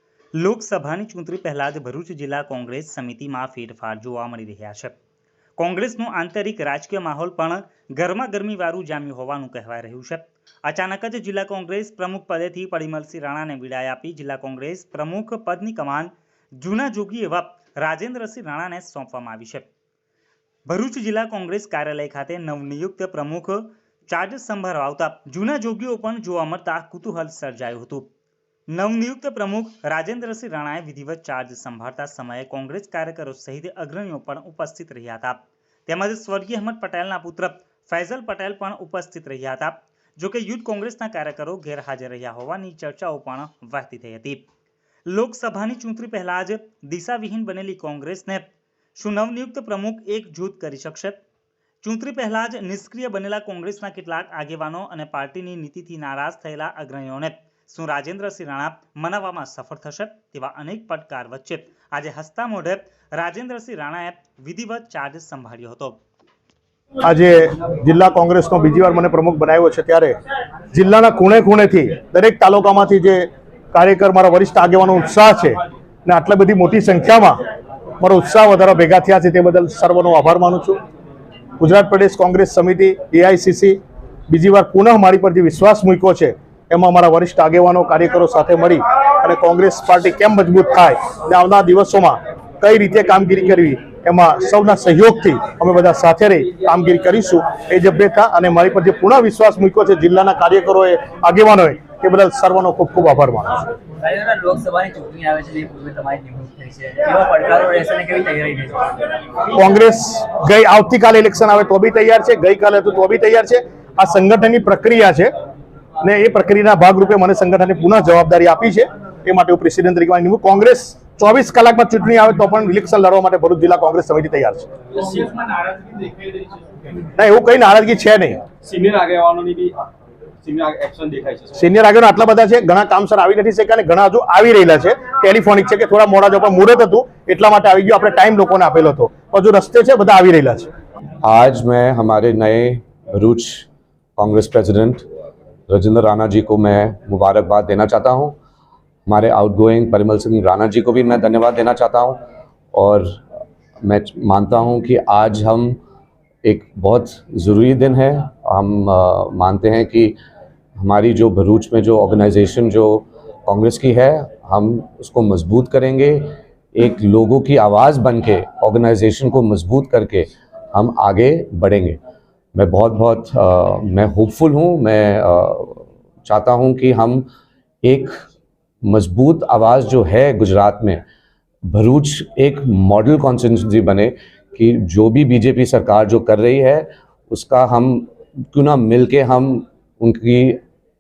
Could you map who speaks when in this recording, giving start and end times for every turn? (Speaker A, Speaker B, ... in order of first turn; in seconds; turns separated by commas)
Speaker A: 0.3-5.0, Speaker A: 5.6-19.7, Speaker A: 20.7-28.1, Speaker A: 28.7-44.4, Speaker A: 45.1-51.2, Speaker A: 51.8-66.0, Speaker B: 67.0-70.2, Speaker B: 70.7-77.4, Speaker B: 78.0-80.8, Speaker B: 81.6-103.7, Speaker C: 104.0-109.0, Speaker B: 109.5-115.3, Speaker B: 116.0-124.7, Speaker D: 124.9-125.4, Speaker B: 127.2-128.4, Speaker D: 128.6-129.8, Speaker D: 130.4-131.6, Speaker B: 131.6-140.7, Speaker E: 141.2-143.7, Speaker E: 144.2-145.1, Speaker E: 145.7-148.4, Speaker E: 149.1-152.2, Speaker E: 152.7-153.2, Speaker E: 153.8-155.8, Speaker E: 156.4-160.2, Speaker E: 160.8-172.0, Speaker E: 172.5-177.2, Speaker E: 177.8-178.1, Speaker E: 178.8-181.0, Speaker E: 181.7-190.6